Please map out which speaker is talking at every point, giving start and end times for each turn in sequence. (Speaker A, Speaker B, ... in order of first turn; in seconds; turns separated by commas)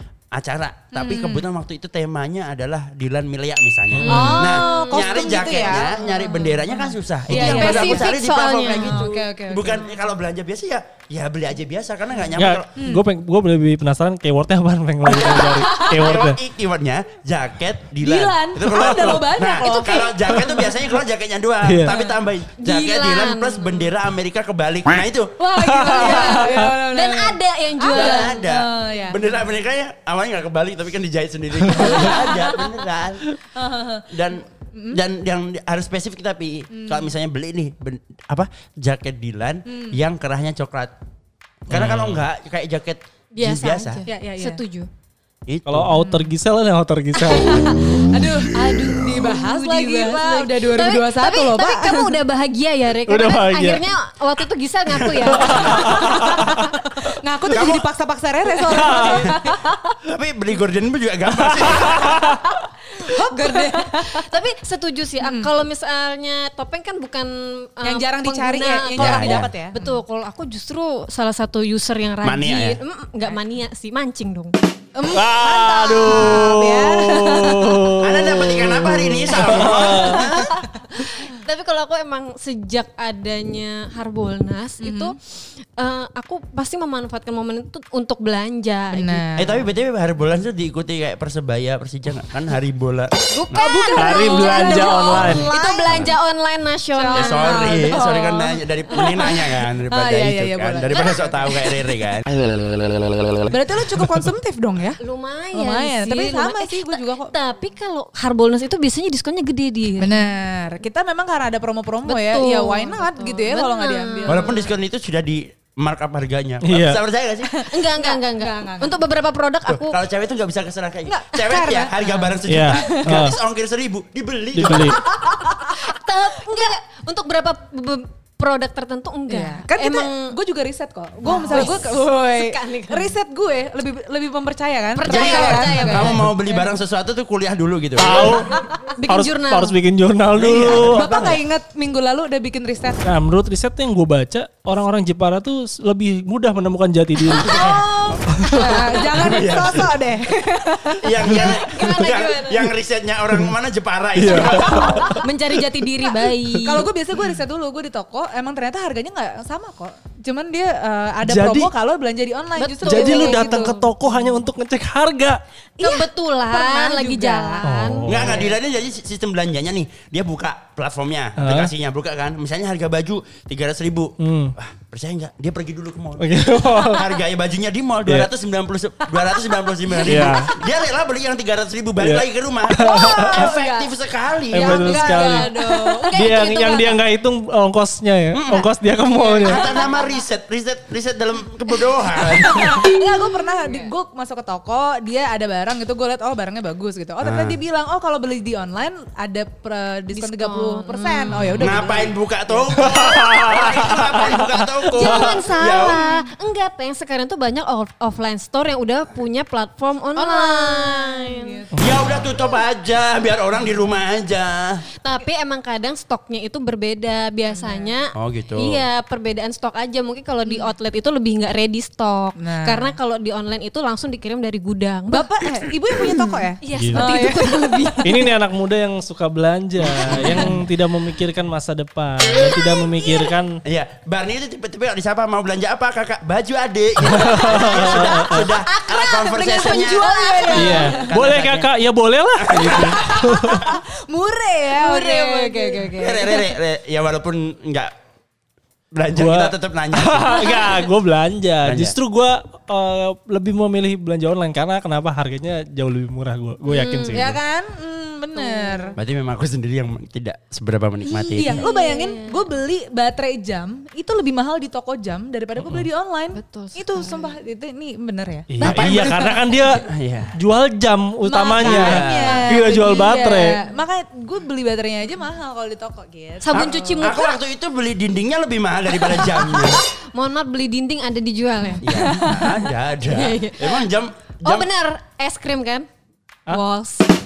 Speaker A: 0.3-12.7, Speaker B: 0.9-1.5, Speaker C: 3.9-4.4, Speaker B: 4.0-8.1, Speaker D: 4.4-6.0, Speaker C: 7.3-7.6, Speaker D: 7.3-9.1, Speaker B: 8.7-10.0, Speaker C: 12.3-16.4, Speaker B: 12.8-13.0, Speaker A: 15.0-25.4, Speaker B: 15.1-16.0, Speaker B: 18.0-20.3, Speaker C: 21.6-21.9, Speaker D: 22.6-23.9, Speaker B: 25.4-29.5, Speaker C: 25.6-26.6, Speaker D: 25.8-28.4, Speaker A: 26.0-26.3, Speaker A: 27.9-33.3, Speaker C: 31.7-31.9, Speaker B: 31.9-32.2, Speaker B: 33.5-34.0, Speaker A: 34.1-40.9, Speaker B: 34.7-35.0, Speaker B: 36.7-37.1, Speaker B: 39.7-40.0, Speaker C: 41.7-42.2, Speaker A: 41.7-44.0, Speaker D: 43.3-44.9, Speaker B: 44.1-44.6, Speaker A: 45.5-45.9, Speaker C: 45.6-47.9, Speaker B: 45.9-46.2, Speaker B: 47.3-52.2, Speaker D: 48.5-56.7, Speaker C: 53.1-53.8, Speaker A: 55.1-56.3, Speaker C: 55.3-56.6, Speaker B: 56.3-59.8, Speaker A: 57.5-57.9, Speaker D: 58.6-59.4, Speaker C: 58.7-59.3, Speaker A: 60.1-62.5, Speaker C: 61.6-62.4, Speaker D: 63.0-74.5, Speaker B: 63.0-64.3, Speaker B: 65.2-65.5, Speaker B: 67.8-70.0, Speaker A: 69.0-69.5, Speaker A: 72.2-72.8, Speaker B: 74.9-78.0, Speaker C: 75.1-80.3, Speaker A: 78.0-80.5, Speaker D: 79.5-89.3, Speaker B: 79.6-80.2, Speaker B: 84.8-85.1, Speaker B: 88.9-89.7, Speaker A: 89.4-93.6, Speaker D: 93.3-98.4, Speaker B: 93.5-96.1, Speaker C: 94.0-95.5, Speaker B: 96.9-101.5, Speaker A: 97.1-102.2, Speaker D: 98.9-99.3, Speaker D: 100.9-101.7, Speaker B: 103.5-105.0, Speaker D: 105.0-110.2, Speaker B: 105.5-107.3, Speaker B: 110.0-114.7, Speaker D: 112.0-114.6, Speaker A: 114.3-117.5, Speaker C: 116.6-117.0, Speaker B: 117.4-119.0, Speaker D: 117.7-120.0, Speaker A: 119.7-125.0, Speaker B: 121.0-123.2, Speaker C: 122.5-123.4, Speaker C: 124.5-125.0, Speaker B: 124.8-125.9, Speaker D: 125.2-130.3, Speaker B: 129.3-136.2, Speaker D: 131.2-133.2, Speaker D: 134.9-136.2, Speaker A: 135.1-138.4, Speaker C: 138.0-141.1, Speaker D: 138.9-139.8, Speaker A: 140.3-141.4, Speaker B: 140.8-143.0, Speaker C: 143.0-147.8, Speaker A: 147.3-149.9, Speaker B: 147.3-151.4, Speaker C: 148.3-148.7, Speaker A: 150.9-155.3, Speaker D: 151.2-152.7, Speaker C: 154.1-155.2, Speaker D: 155.1-156.9, Speaker B: 156.0-163.7, Speaker C: 161.2-161.7, Speaker D: 162.6-164.0, Speaker C: 162.8-165.4, Speaker B: 165.8-167.7, Speaker D: 165.8-168.4, Speaker C: 167.6-168.4, Speaker A: 168.1-185.1, Speaker B: 168.2-168.4, Speaker C: 171.4-171.7, Speaker C: 174.2-174.5, Speaker C: 176.2-177.1, Speaker C: 180.1-180.5, Speaker C: 182.0-183.5, Speaker D: 182.8-183.9, Speaker C: 184.5-185.5, Speaker D: 184.5-187.0, Speaker B: 184.8-186.4, Speaker C: 186.1-189.7, Speaker A: 188.3-188.7, Speaker D: 189.1-190.1, Speaker B: 189.4-189.8, Speaker A: 189.4-192.9, Speaker B: 192.4-202.8, Speaker D: 193.6-193.9, Speaker A: 197.2-197.6, Speaker D: 200.1-201.7, Speaker A: 201.6-206.0, Speaker C: 202.8-205.3, Speaker B: 203.3-203.9, Speaker D: 204.9-211.6, Speaker B: 205.7-206.2, Speaker B: 210.2-212.1, Speaker A: 211.7-214.8, Speaker D: 215.0-225.3, Speaker B: 217.6-217.9, Speaker A: 218.1-218.8, Speaker B: 220.4-220.7, Speaker B: 222.4-222.9, Speaker B: 225.1-228.1, Speaker D: 225.9-228.3, Speaker C: 226.8-227.2, Speaker C: 228.0-233.5, Speaker D: 229.8-230.5, Speaker D: 232.8-233.3, Speaker A: 233.6-241.7, Speaker C: 237.1-238.5, Speaker B: 238.4-241.0, Speaker D: 238.9-240.9, Speaker C: 240.5-243.6, Speaker A: 242.4-243.8, Speaker B: 243.5-246.5, Speaker D: 244.7-245.9, Speaker A: 246.0-247.9, Speaker A: 248.9-250.6, Speaker C: 249.1-257.4, Speaker B: 250.3-250.7, Speaker A: 251.6-251.9, Speaker D: 256.7-257.3, Speaker B: 257.1-258.9, Speaker D: 258.4-259.0, Speaker A: 259.0-261.6, Speaker B: 261.0-269.1, Speaker D: 261.4-262.4, Speaker C: 265.6-265.9, Speaker D: 266.3-267.3, Speaker C: 268.5-269.8, Speaker A: 268.6-270.3, Speaker C: 270.4-273.6, Speaker B: 271.2-276.7, Speaker A: 271.6-272.4, Speaker D: 272.2-273.8, Speaker D: 276.4-277.4, Speaker A: 276.5-279.8, Speaker D: 279.0-283.9, Speaker B: 281.7-282.5, Speaker A: 281.8-284.7, Speaker D: 284.4-285.9, Speaker D: 286.5-287.1